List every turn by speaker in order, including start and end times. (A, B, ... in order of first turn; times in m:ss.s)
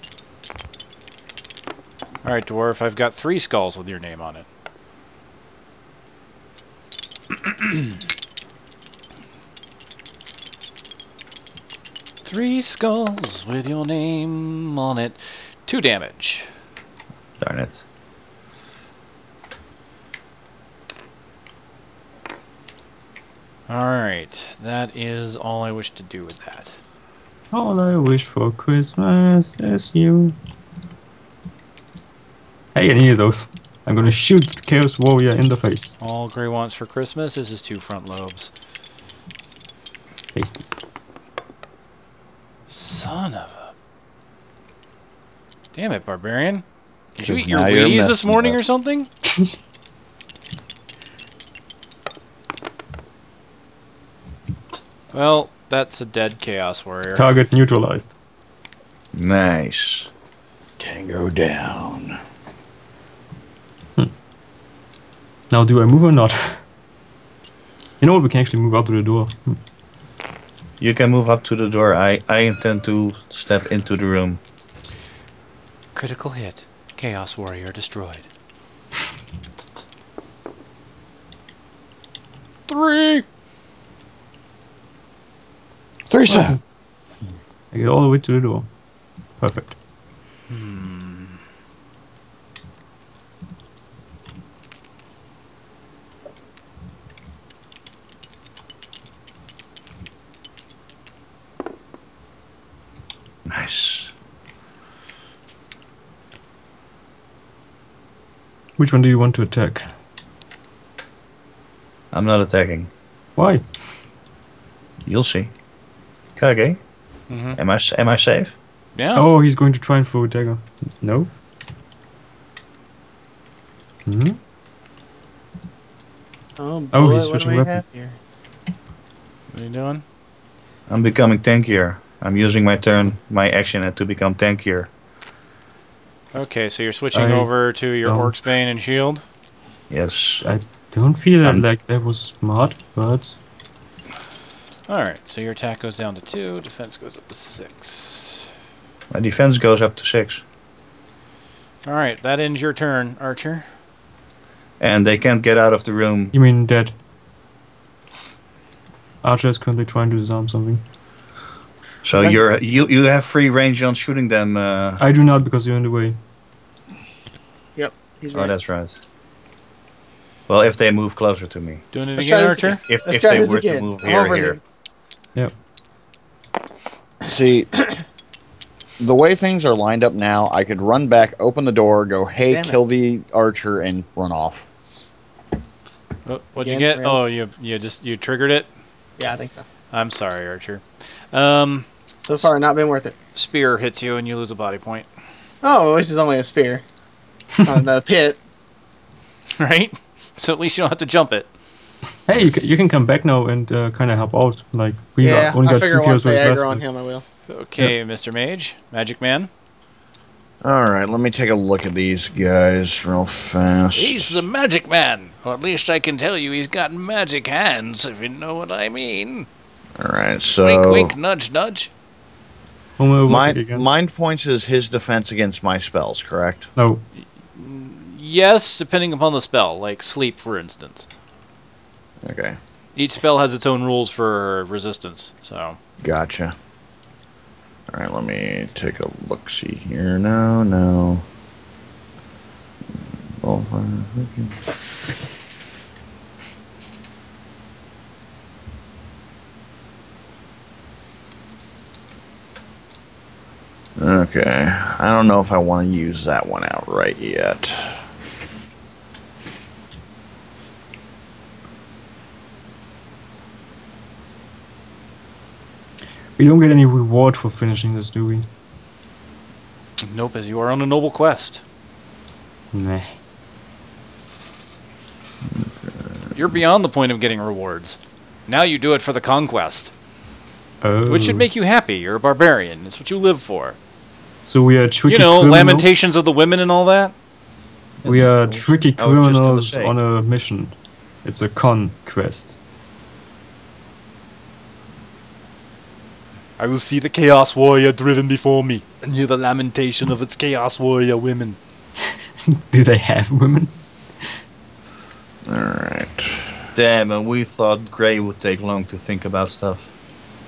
0:02.2-0:04.5 A
0:12.2-0:16.5 A
0:17.4-0:17.8 B
0:23.7-0:26.8 A
0:27.5-0:30.4 C
0:32.8-0:35.9 C
0:36.0-0:38.5 A
0:40.3-0:40.7 C
0:42.7-0:43.7 A
0:45.7-0:46.6 A
0:47.2-0:49.1 A
0:47.2-0:48.6 D
0:55.1-0:57.3 A
0:57.2-0:58.2 C
0:59.1-1:00.1 B
1:00.8-1:02.2 D
1:05.5-1:06.6 C
1:08.0-1:09.6 C
1:10.8-1:14.4 B
1:16.0-1:18.3 A
1:22.7-1:23.2 A
1:26.1-1:26.6 D
1:26.3-1:26.6 C
1:27.7-1:28.7 C
1:29.4-1:29.8 C
1:30.5-1:31.4 A
1:43.5-1:44.1 B
1:48.8-1:49.9 C
1:52.1-1:52.9 B
1:53.4-1:53.6 C
1:55.1-1:55.5 B
1:56.4-1:56.8 B
1:57.3-1:57.6 A
1:57.6-1:58.6 B
1:59.0-1:59.3 A
1:59.2-2:01.3 C
2:04.1-2:04.4 C
2:06.6-2:08.2 E
2:06.9-2:07.8 C
2:09.5-2:10.0 A
2:10.9-2:14.9 B
2:16.3-2:19.2 A
2:17.1-2:17.5 C
2:18.0-2:18.3 C
2:19.9-2:20.5 B
2:20.4-2:23.4 C
2:24.9-2:28.5 A
2:29.1-2:30.4 B
2:31.8-2:33.7 A
2:34.8-2:36.3 B
2:36.3-2:36.9 C
2:39.2-2:40.8 C
2:42.0-2:45.0 B
2:45.0-2:46.2 C
2:47.8-2:48.6 E
2:48.3-2:49.0 B
2:50.5-2:51.8 B
2:51.9-2:52.8 A
2:52.2-2:54.6 E
2:52.8-2:54.6 B
2:57.3-2:57.7 D
2:59.0-3:04.7 D
3:02.5-3:02.8 E
3:06.3-3:08.7 A
3:06.6-3:07.2 E
3:09.2-3:09.6 E
3:09.9-3:12.5 A
3:12.3-3:13.2 E
3:13.4-3:15.1 A
3:15.6-3:16.8 E
3:17.6-3:18.4 E
3:19.6-3:21.5 A
3:22.3-3:26.8 C
3:25.2-3:27.2 E
3:27.5-3:29.5 A
3:30.6-3:34.4 D
3:34.0-3:39.5 A
3:40.0-3:41.1 D
3:40.6-3:41.9 A
3:43.0-3:43.9 C
3:43.3-3:46.7 D
3:46.8-3:47.0 C
3:47.5-3:51.1 A
3:52.2-3:52.6 D
3:53.0-3:55.8 A
3:56.0-3:56.6 D
3:57.9-4:01.2 D
4:03.4-4:04.6 D
4:14.0-4:18.1 D
4:26.4-4:28.5 C
4:30.0-4:31.6 A
4:32.7-4:33.2 C
4:35.4-4:36.3 D
4:36.4-4:39.9 A
4:40.8-4:41.5 C
4:41.1-4:43.8 A
4:44.4-4:45.9 C
4:45.1-4:47.1 A
4:48.0-4:50.0 B
4:48.0-4:52.6 C
4:56.6-5:01.6 A
5:02.5-5:03.8 C
5:05.5-5:06.6 D
5:06.8-5:09.9 B